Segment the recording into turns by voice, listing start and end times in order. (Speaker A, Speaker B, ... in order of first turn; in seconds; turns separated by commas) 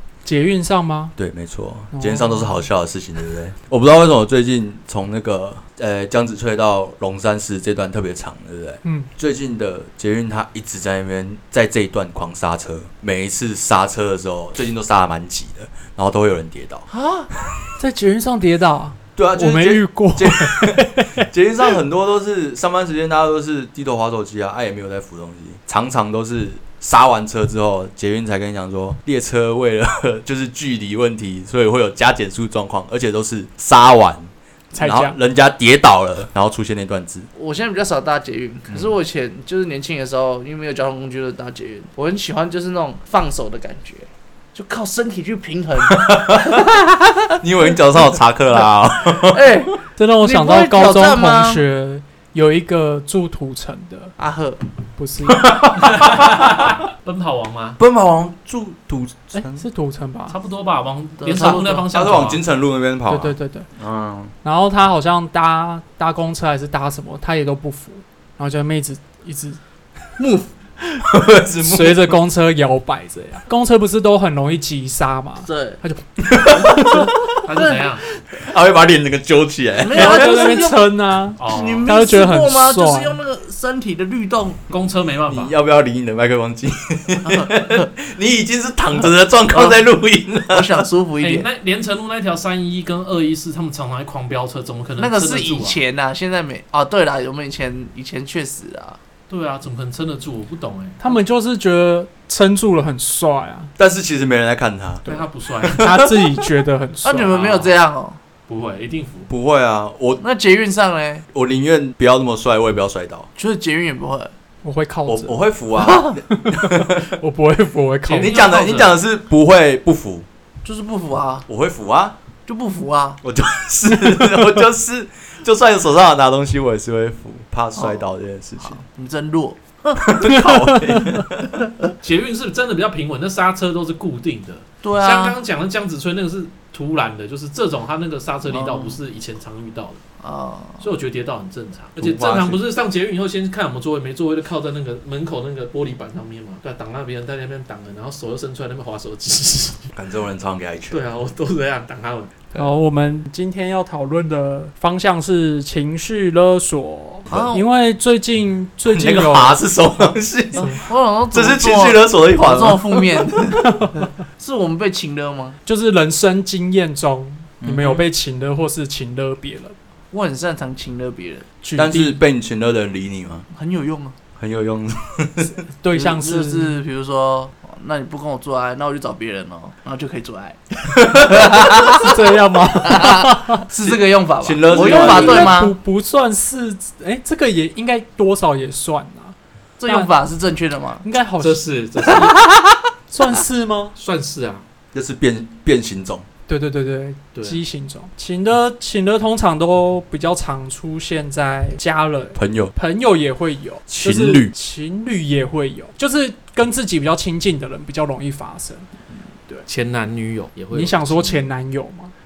Speaker A: 0.2-1.1, Speaker B: 1.2-16.9, Speaker A: 1.9-2.6, Speaker A: 8.8-9.1, Speaker C: 16.9-17.3, Speaker A: 17.8-21.3, Speaker B: 19.2-34.3, Speaker A: 34.7-35.1, Speaker B: 34.8-37.3, Speaker C: 37.3-47.3, Speaker B: 45.9-46.7, Speaker B: 47.4-49.6, Speaker C: 49.2-51.6, Speaker A: 50.0-54.1, Speaker C: 54.2-54.6, Speaker A: 55.0-55.6, Speaker B: 55.3-56.7, Speaker D: 55.7-57.8, Speaker B: 57.8-59.6, Speaker A: 59.3-60.3, Speaker D: 60.3-62.4, Speaker C: 61.2-61.8, Speaker B: 61.6-64.3, Speaker A: 63.1-63.7, Speaker A: 64.4-69.6, Speaker C: 70.2-70.5, Speaker A: 70.8-71.1, Speaker B: 71.0-72.2, Speaker A: 71.6-77.1, Speaker C: 75.4-75.8, Speaker B: 76.3-77.3, Speaker D: 77.4-78.0, Speaker C: 77.5-77.8, Speaker B: 78.4-80.3, Speaker C: 79.8-80.8, Speaker A: 79.9-83.2, Speaker D: 81.4-81.9, Speaker C: 81.4-84.6, Speaker D: 84.7-85.5, Speaker B: 85.3-90.8, Speaker C: 87.2-87.9, Speaker C: 89.5-89.8, Speaker C: 90.5-91.5, Speaker D: 91.2-95.8, Speaker C: 95.0-99.0, Speaker D: 99.3-101.0, Speaker A: 101.0-103.7, Speaker B: 103.8-105.0, Speaker A: 105.0-107.5, Speaker D: 105.1-105.9, Speaker B: 105.6-106.3, Speaker C: 107.0-108.2, Speaker D: 107.3-107.7, Speaker D: 108.5-109.3, Speaker B: 109.3-110.2, Speaker C: 110.2-111.2, Speaker B: 111.3-113.3, Speaker C: 113.3-114.3, Speaker A: 114.6-115.4, Speaker B: 115.1-117.2, Speaker C: 115.8-116.2, Speaker A: 116.2-118.4, Speaker D: 118.1-119.0, Speaker B: 118.1-120.2, Speaker C: 120.6-121.5, Speaker B: 121.5-122.2, Speaker C: 122.5-123.2, Speaker B: 123.2-128.8, Speaker A: 124.0-124.5, Speaker C: 127.8-128.0, Speaker C: 128.6-130.1, Speaker B: 129.9-131.5, Speaker A: 130.2-131.2, Speaker D: 132.0-140.0, Speaker C: 134.8-135.4, Speaker C: 138.5-139.0, Speaker C: 140.2-140.8, Speaker D: 140.8-149.9, Speaker B: 142.0-142.6, Speaker B: 149.9-151.0, Speaker D: 150.9-152.6, Speaker A: 152.6-159.6, Speaker C: 157.3-157.6, Speaker B: 158.9-163.3, Speaker C: 160.5-165.6, Speaker A: 163.6-164.1, Speaker A: 165.7-169.7, Speaker B: 167.6-168.0, Speaker C: 170.1-171.4, Speaker A: 171.6-172.2, Speaker B: 171.8-173.5, Speaker C: 173.5-174.2, Speaker B: 174.4-175.6, Speaker A: 175.8-176.8, Speaker C: 175.9-182.2, Speaker A: 181.9-183.6, Speaker C: 182.8-185.7, Speaker B: 183.8-185.6, Speaker A: 184.7-189.3, Speaker C: 189.8-191.0, Speaker A: 189.9-190.1, Speaker A: 191.0-192.3, Speaker D: 191.4-192.3, Speaker C: 192.0-192.8, Speaker A: 193.1-193.9, Speaker D: 193.9-194.6, Speaker B: 194.9-196.2, Speaker A: 196.5-208.9, Speaker B: 202.4-202.7, Speaker B: 203.9-204.5, Speaker D: 209.7-211.5, Speaker A: 210.7-212.1